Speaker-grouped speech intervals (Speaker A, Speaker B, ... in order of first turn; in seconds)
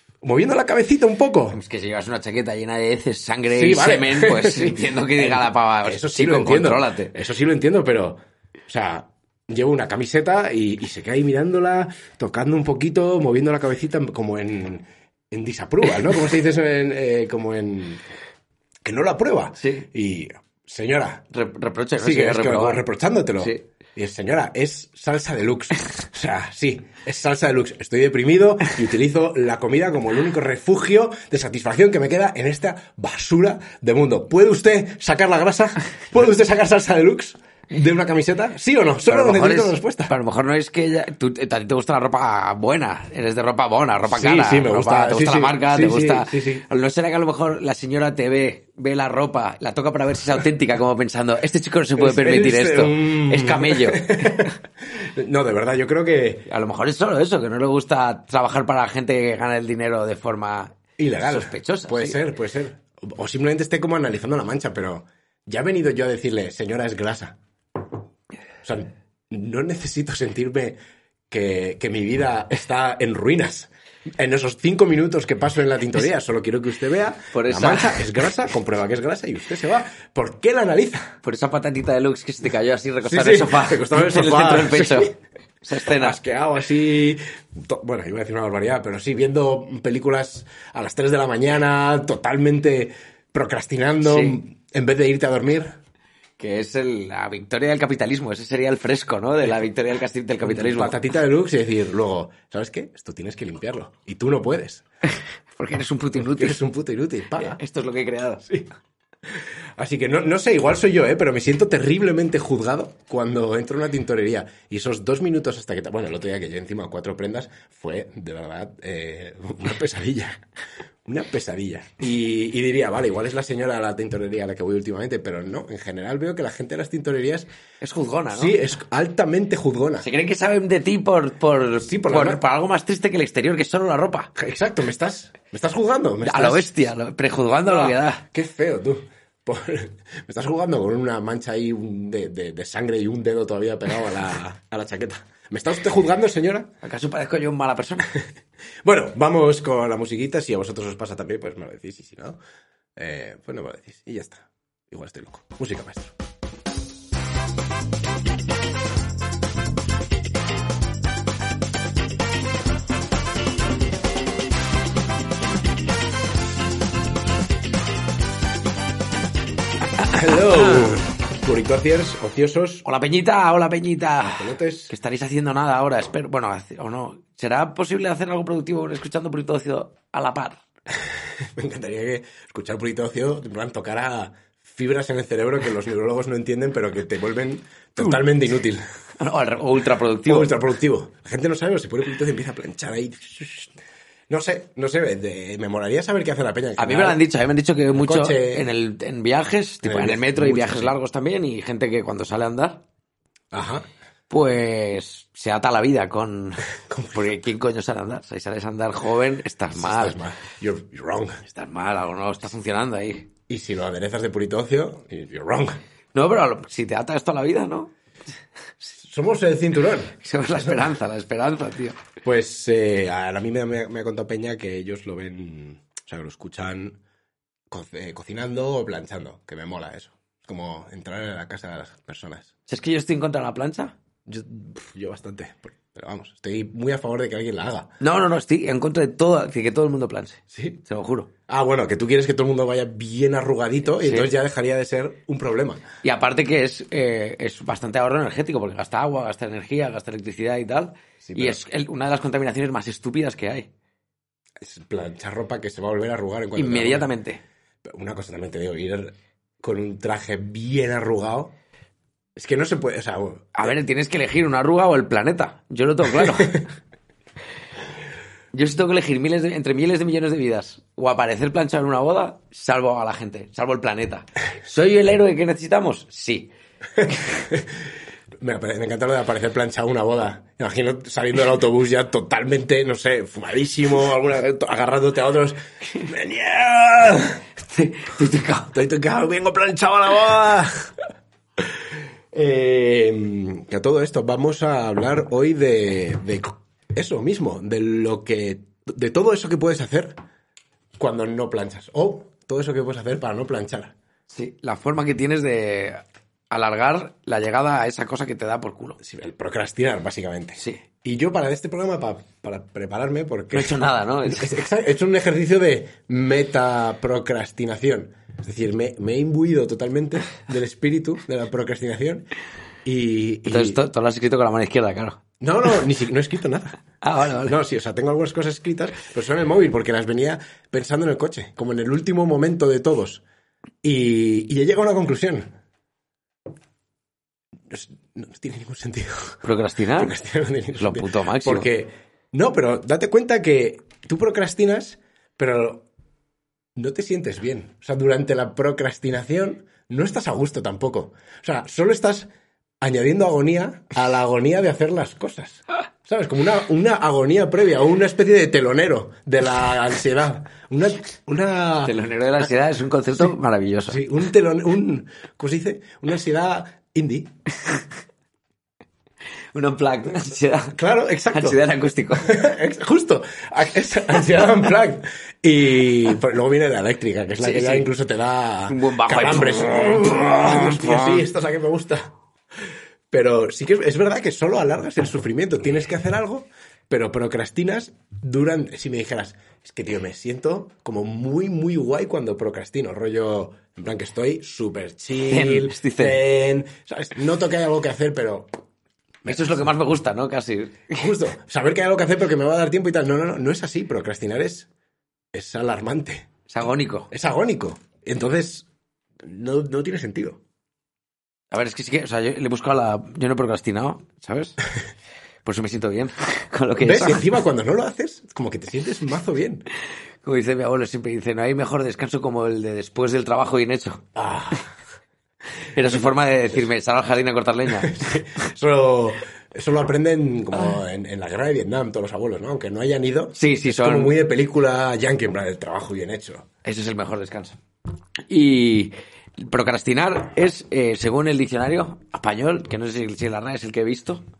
Speaker A: 0.2-1.6, 3.5-18.1, 18.8-21.2, 22.0-40.1, 44.0-46.6, 52.0-56.5, 61.0-67.4, 68.6-70.8, 71.3-81.2, 83.0-85.1, 85.9-95.7, 100.4-104.8, 106.2-107.6, 109.3-120.4, 121.0-127.5, 128.3-130.1, 131.8-132.4, 134.3-136.7, 137.7-146.7, 148.8-152.4, 152.9-156.1, 170.0-172.8, 174.4-174.9, 181.0-188.8, 190.2-193.7, 194.3-197.2, 197.9-198.7, 199.8-200.9, 203.5-203.8, 206.8-207.3, 209.7-211.4, 213.5-215.8, 218.9-220.8, 222.2-227.0, 227.7-232.5, 234.3-237.9, 240.5-240.8, 241.5-245.8, 251.2-251.6, 254.6-257.1, 257.8-261.5, 262.4-263.7, 277.0-277.9, 278.4-287.4, 288.7-290.9, 292.3-300.1, 301.0-303.9, 309.0-322.2, 322.8-323.8, 325.4-326.8, 327.3-333.2, 333.8-335.5, 337.7-339.4, 339.9-345.9, 346.8-352.3, 352.8-361.9, 363.9-367.3, 370.7-371.6, 372.1-382.1, 383.1-398.5, 399.2-399.6, 400.9-404.7, 405.3-406.3, 407.1-408.6, 409.2-410.4, 416.8-419.6, 424.1-424.7, 427.7-436.4
Speaker B: 1.5-7.1, 19.6-19.9, 21.3-22.8, 39.0-54.5, 56.5-62.2, 77.3-78.1, 81.2-86.2, 94.0-94.4, 96.4-101.0, 105.5-106.6, 107.4-108.5, 127.8-128.6, 130.0-134.3, 136.2-138.2, 146.8-148.1, 170.3-171.0, 172.8-180.6, 189.2-190.5, 196.8-202.8, 204.3-210.2, 211.4-213.3, 216.1-217.9, 220.2-222.0, 232.7-233.9, 238.0-241.3, 244.0-244.3, 246.0-253.7, 256.6-257.4, 263.6-266.6, 268.5-276.5, 287.6-288.7, 304.3-309.0, 313.5-314.5, 323.5-325.2, 327.0-327.6, 339.4-340.1, 340.8-341.7, 361.8-364.0, 369.5-370.8, 371.3-372.4, 377.4-377.9, 378.7-381.2, 395.3-396.2, 399.2-401.1, 406.5-407.1, 411.5-414.6, 415.4-417.3, 420.2-424.1, 425.7-428.2, 433.3-434.1, 436.6-437.6, 438.3-444.2